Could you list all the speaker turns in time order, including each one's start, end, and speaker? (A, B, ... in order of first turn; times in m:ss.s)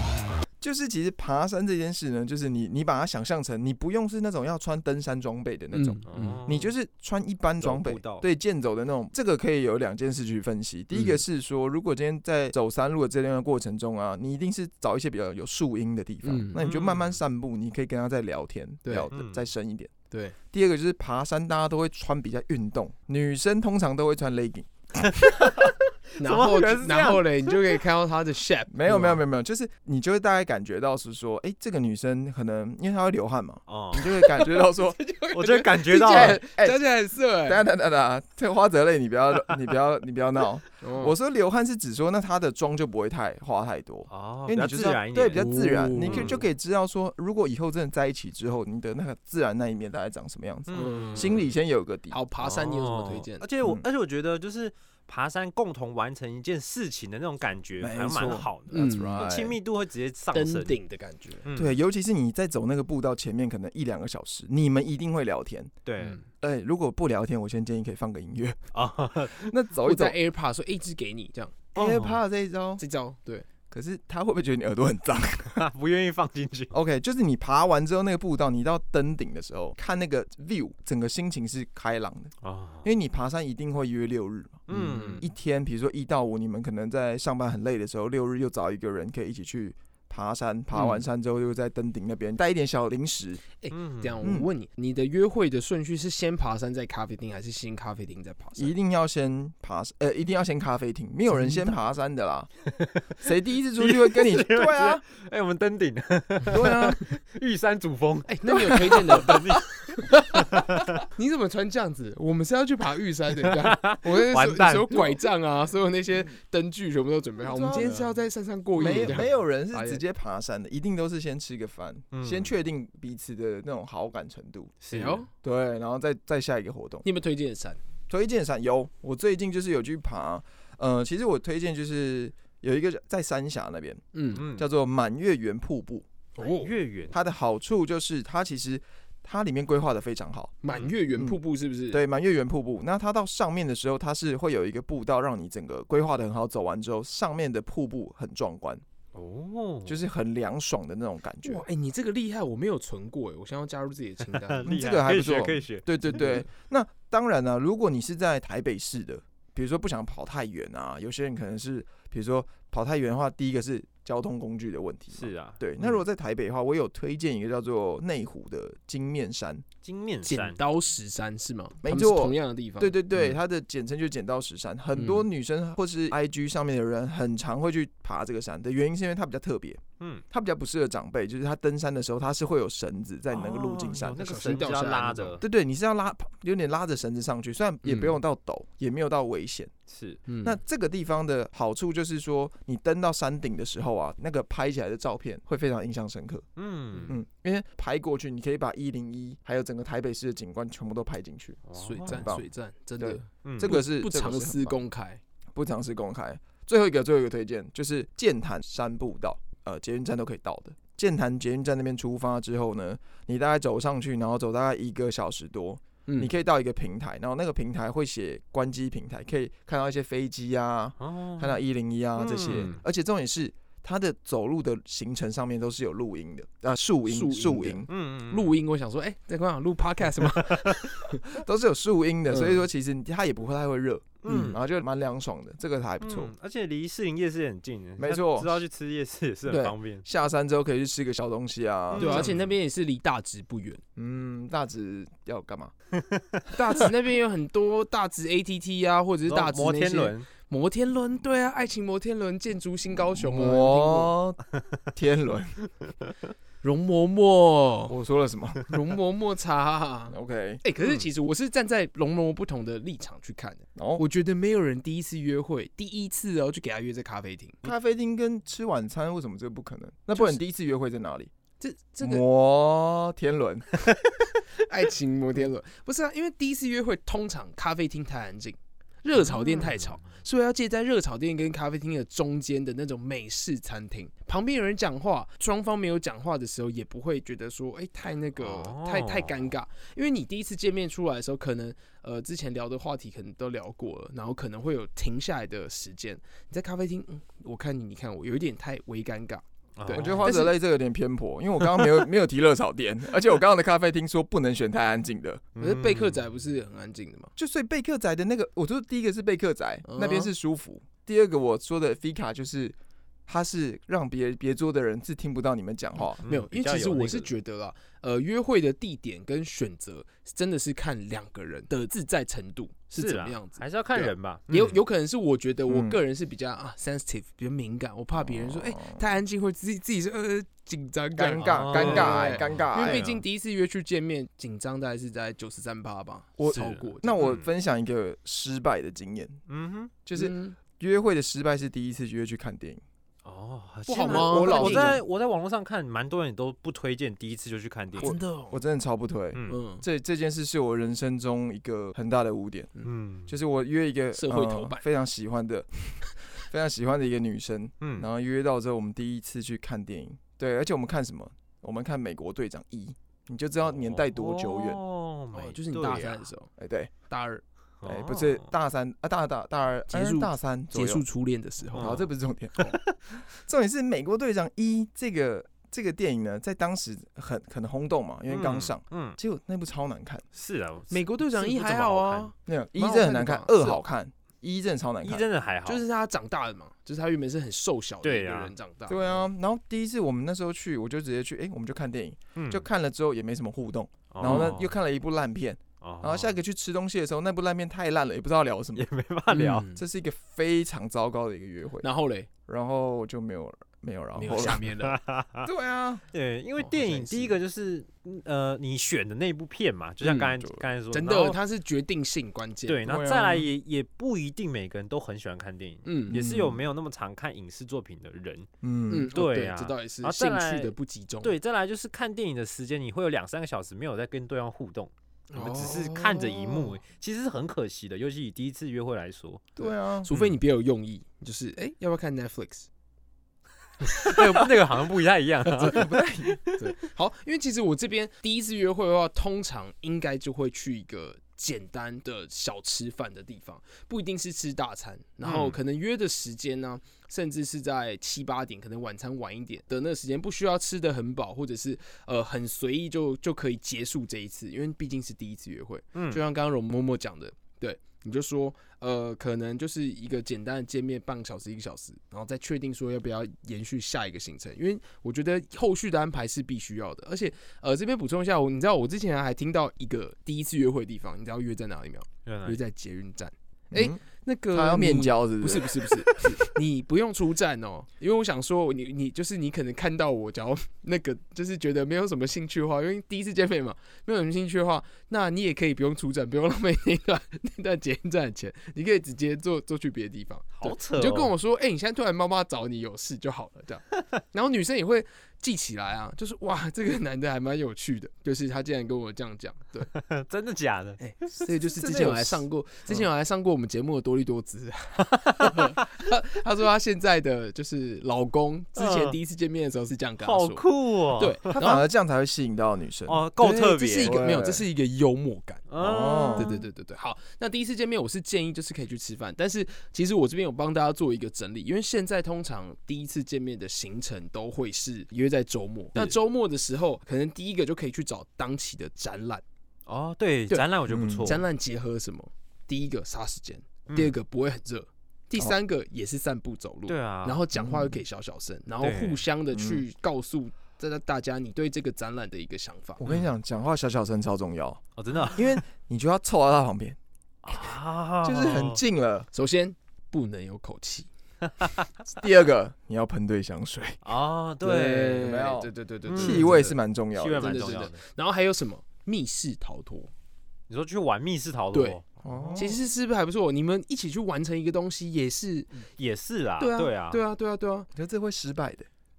0:00.6-0:19.9 A
0:05.7-0:06.4 B
0:06.1-0:06.7 C
0:07.6-0:08.2 C
0:10.9-0:11.2 B
0:16.2-0:16.6 B
0:16.6-0:17.2 C
0:18.8-0:19.1 B
0:19.1-0:19.5 C
0:20.1-0:20.4 B
0:20.5-0:25.0 A
0:25.0-0:27.5 C
0:26.2-0:29.2 B
0:28.7-0:35.0 A
0:33.7-0:34.1 C
0:34.2-0:37.6 B
0:35.3-0:36.4 C
0:36.0-0:36.8 A
0:37.4-0:52.2 A
0:40.8-0:41.1 B
0:44.1-0:45.5 C
0:45.4-0:46.4 B
0:46.0-0:46.4 C
0:50.7-0:51.5 C
0:50.7-0:51.4 B
0:52.1-0:53.5 B
0:52.4-1:00.8 C
0:57.8-0:59.6 A
0:58.7-0:59.3 B
1:00.3-1:01.4 B
1:01.4-1:01.8 C
1:01.6-1:05.7 A
1:05.8-1:06.2 C
1:06.4-1:08.6 A
1:08.7-1:09.5 C
1:09.4-1:10.2 A
1:09.8-1:11.6 B
1:11.8-1:12.2 C
1:11.8-1:12.8 A
1:12.8-1:13.5 B
1:13.7-1:15.6 A
1:15.6-1:16.7 C
1:16.7-1:33.4 A
1:22.4-1:22.9 C
1:24.7-1:25.3 C
1:24.7-1:25.2 B
1:33.6-1:38.7 B
1:33.7-1:34.3 C
1:34.2-1:34.5 A
1:38.6-1:42.5 A
1:41.3-1:41.7 B
1:43.2-1:45.0 A
1:43.8-1:51.0 C
1:46.5-1:47.0 A
1:48.3-2:00.0 B
1:48.5-1:49.4 A
1:53.4-1:55.2 C
1:57.4-1:58.0 A
1:57.8-1:58.1 C
1:58.8-2:04.8 A
1:58.8-1:59.3 C
2:02.1-2:02.5 C
2:04.8-2:05.2 C
2:04.9-2:05.3 B
2:05.4-2:07.0 A
2:07.0-2:07.8 B
2:08.1-2:16.1 A
2:14.1-2:14.4 B
2:14.3-2:14.7 C
2:16.4-2:16.7 B
2:16.4-2:17.2 C
2:17.1-2:20.6 A
2:20.6-2:22.0 B
2:21.1-2:21.4 A
2:21.9-2:28.8 A
2:29.1-2:30.0 C
2:29.9-2:31.6 A
2:31.4-2:34.7 B
2:34.2-2:36.2 C
2:34.7-2:49.6 A
2:36.1-2:36.4 B
2:45.1-2:46.0 C
2:49.8-2:50.6 C
2:50.2-2:53.4 B
2:51.8-3:04.3 A
2:55.0-2:55.3 B
3:03.3-3:05.4 C
3:04.2-3:05.4 B
3:05.4-3:09.7 A
3:07.8-3:08.2 B
3:09.9-3:10.2 C
3:10.3-3:10.6 B
3:10.4-3:16.5 A
3:16.6-3:17.2 C
3:17.1-3:22.4 A
3:21.7-3:22.3 C
3:21.8-3:25.2 B
3:23.0-3:24.8 A
3:23.4-3:23.8 C
3:25.6-3:47.9 A
3:36.1-3:36.3 B
3:41.0-3:41.6 C
3:42.2-3:42.8 C
3:47.1-3:51.2 B
3:47.9-3:48.6 C
3:50.3-3:50.7 C
3:51.2-3:56.3 A
3:52.3-3:52.6 B
3:54.2-3:54.6 C
3:54.3-3:54.5 B
3:56.0-4:00.0 C
3:58.0-3:58.6 A
3:59.5-4:02.3 A
4:01.9-4:02.5 C
4:02.0-4:03.8 B
4:04.0-4:05.7 A
4:05.9-4:06.5 C
4:06.5-4:14.2 B
4:09.3-4:10.3 C
4:13.0-4:14.4 A
4:14.9-4:15.6 A
4:15.8-4:16.1 C
4:16.6-4:18.0 B
4:17.9-4:18.6 A
4:18.7-4:27.7 B
4:20.1-4:20.6 A
4:23.8-4:24.0 A
4:27.6-4:31.3 A
4:31.6-4:32.2 B
4:32.0-4:33.7 A
4:34.6-5:00.6 B
4:39.3-4:40.0 C
4:48.4-4:49.5 C
4:59.8-5:00.4 C
4:59.9-5:05.4 A
5:05.6-5:06.2 C
5:05.6-5:07.3 B
5:07.4-5:12.8 A
5:09.8-5:10.3 B
5:13.3-5:16.2 A
5:16.2-5:17.3 C
5:16.3-5:23.6 B
5:23.0-5:24.8 C
5:24.5-5:37.2 B
5:25.7-5:26.0 A
5:28.2-5:29.0 A
5:31.2-5:33.1 A
5:31.4-5:33.2 C
5:36.4-5:39.4 A
5:36.5-5:37.5 C
5:39.5-5:39.9 C
5:40.1-5:42.8 A
5:40.2-5:40.6 B
5:43.2-5:48.2 C
5:43.9-5:45.0 B
5:44.0-5:45.0 A
5:48.0-5:52.7 A
5:48.0-5:48.6 B
5:49.3-5:49.6 C
5:49.5-5:49.8 B
5:52.8-5:53.3 C
5:53.3-6:04.8 A
5:54.2-5:54.8 B
5:57.8-5:58.1 C
6:03.7-6:06.3 C
6:05.3-6:06.5 B
6:06.6-6:06.9 A
6:07.1-6:07.4 B
6:07.8-6:08.5 C
6:07.8-6:11.0 A
6:09.9-6:12.0 B
6:11.7-6:12.1 C
6:11.8-6:20.2 A
6:18.3-6:19.2 C
6:20.3-6:22.3 C
6:20.9-6:23.8 B
6:22.5-6:25.3 A
6:25.0-6:25.8 C
6:25.7-6:29.2 B
6:28.0-6:28.5 C
6:28.9-6:38.9 A
6:32.4-6:32.7 C
6:34.1-6:34.8 C
6:34.2-6:34.6 B
6:35.8-6:36.4 C
6:38.8-6:39.7 C
6:39.3-6:39.8 B
6:39.8-6:41.9 A
6:41.8-6:42.3 B
6:42.5-6:44.6 A
6:44.2-6:45.0 B
6:44.3-6:45.5 C
6:45.4-6:46.0 A
6:46.1-6:51.4 C
6:46.6-6:47.4 B
6:50.0-6:50.4 B
6:50.9-6:52.8 B
6:52.7-6:58.5 C
6:52.8-6:53.5 A
6:55.8-6:56.3 B
6:56.1-6:56.6 A
6:58.6-6:59.1 A
6:58.9-7:01.4 B
6:59.1-7:09.5 C
7:05.3-7:06.7 B
7:09.6-7:10.1 A
7:09.6-7:12.7 B
7:10.1-7:10.4 C
7:14.0-7:16.6 C
7:15.6-7:16.4 A
7:16.5-8:19.9 B
7:25.2-7:25.6 C
7:35.9-7:36.2 C
7:52.3-7:52.6 C
7:53.7-7:54.0 A
7:54.5-7:56.2 A
8:10.6-8:11.3 C
8:19.9-8:21.0 C
8:21.0-8:30.6 B
8:21.7-8:23.1 A
8:28.8-8:29.2 C
8:30.2-8:31.5 C
8:31.2-8:31.8 B
8:31.5-8:33.3 A
8:33.1-8:34.2 C
8:33.4-8:35.7 B
8:34.0-8:34.7 A
8:35.7-8:36.6 C
8:35.8-8:36.5 A
8:36.4-8:49.4 B
8:49.9-8:51.4 C
8:50.9-8:51.4 A
8:51.2-9:03.0 B
8:53.9-8:54.1 C
8:56.9-8:57.4 C
8:57.5-8:58.0 A
8:58.8-8:59.2 C
8:59.5-8:59.8 A
9:03.0-9:07.0 A
9:05.0-9:05.6 C
9:07.4-9:08.8 C
9:08.2-9:09.3 A
9:09.3-9:11.1 B
9:12.1-9:14.0 A
9:14.0-9:15.2 C
9:14.6-9:17.8 A
9:14.7-9:16.8 B
9:16.1-9:16.5 C
9:17.2-9:18.0 C
9:17.4-9:20.1 B
9:20.7-9:22.7 C
9:21.7-9:22.0 B
9:22.2-9:22.8 A
9:22.6-9:25.7 B
9:26.0-9:27.2 C
9:26.6-9:27.9 B
9:28.0-9:28.9 A